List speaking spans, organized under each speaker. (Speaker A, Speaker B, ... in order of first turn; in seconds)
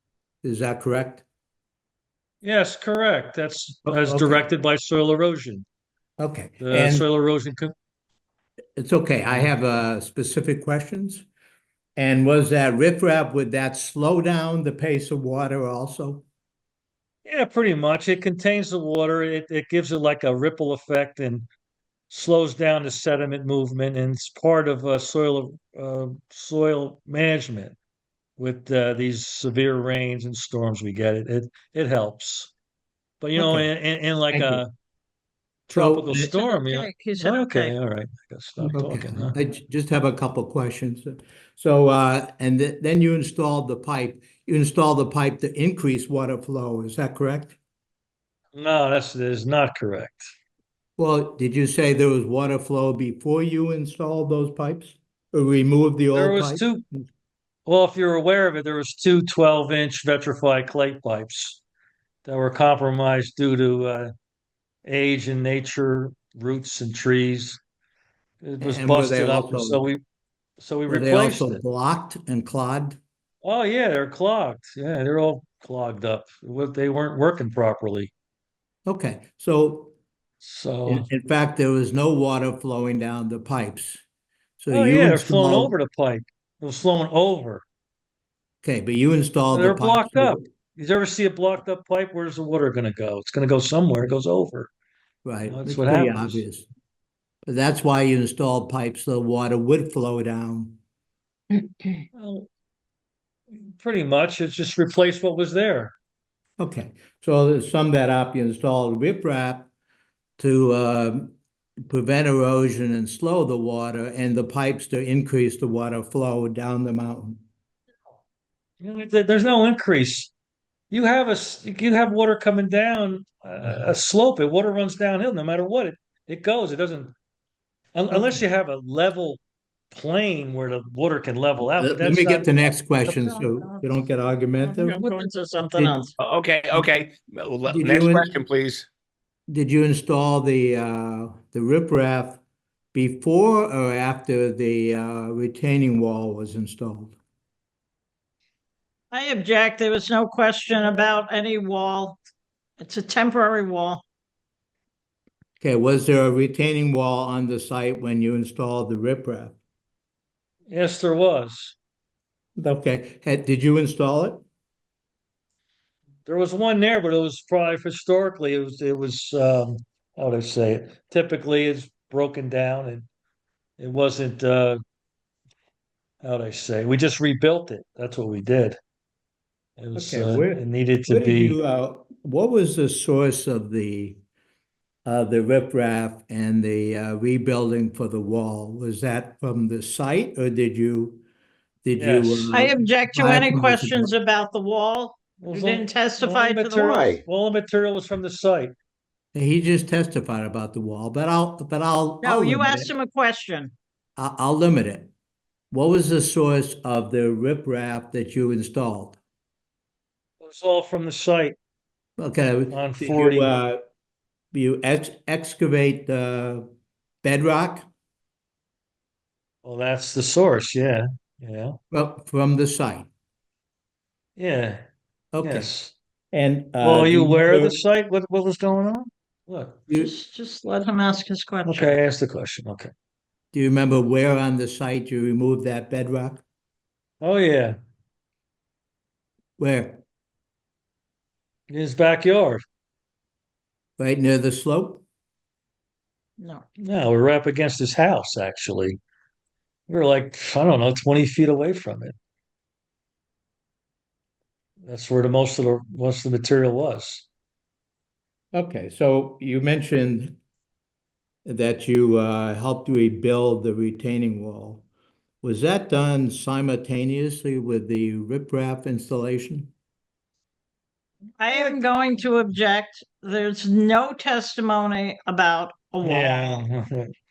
Speaker A: 0.4-1.2, 3.9-4.4, 6.2-7.0, 8.8-11.2, 11.9-16.2, 33.4-33.7, 34.3-34.6, 35.7-36.3, 38.7-47.5, 51.0-57.0, 68.6-69.8, 70.9-73.0, 78.8-79.9, 80.8-84.0, 84.6-85.7, 88.6-90.5, 95.2-96.7, 97.5-100.8, 106.6-109.7, 110.4-111.3, 111.9-117.4, 128.1-128.4, 131.8-135.0, 137.7-138.3, 139.5-142.4, 142.9-147.2, 155.6-159.6, 162.6-164.4, 179.9-184.2, 185.0-191.2, 191.8-194.1, 199.3-202.9, 204.2-205.1, 205.7-209.2, 212.2-213.8, 214.5-216.6, 217.2-217.8, 221.9-223.1, 225.3-225.7, 226.3-227.8, 233.5-236.4, 239.6-240.0, 244.0-245.0, 258.5-260.4, 261.4-264.8, 265.4-269.7
Speaker B: 2.4-5.6, 6.6-7.7, 17.2-21.5, 22.1-27.8, 28.4-32.5, 33.2-34.7, 35.7-39.4, 48.5-50.3, 56.1-56.8, 57.6-61.6, 62.2-64.1, 64.8-67.6, 68.4-70.0, 70.6-71.6, 73.4-78.1, 80.4-81.1, 84.7-87.6, 89.5-94.7, 95.5-96.4, 102.1-102.5, 103.5-105.9, 118.8-120.3, 120.9-127.1, 127.9-129.4, 129.9-133.4, 160.7-161.8, 166.2-173.1, 173.8-174.8, 176.2-178.8, 179.8-181.6, 191.9-192.7, 195.4-198.7, 210.4-211.6, 212.7-213.5, 219.6-221.8, 224.4-224.8, 225.4-225.9, 226.8-229.8, 231.6-232.9, 237.2-237.8, 241.7-242.6, 246.8-249.0, 249.9-252.1, 254.8-257.2, 271.5-271.8, 276.0-277.1
Speaker C: 36.3-37.7, 134.6-136.1, 149.1-152.2, 152.8-154.0, 192.5-197.2, 202.2-203.7, 229.9-231.9, 271.4-276.6
Speaker D: 136.2-138.9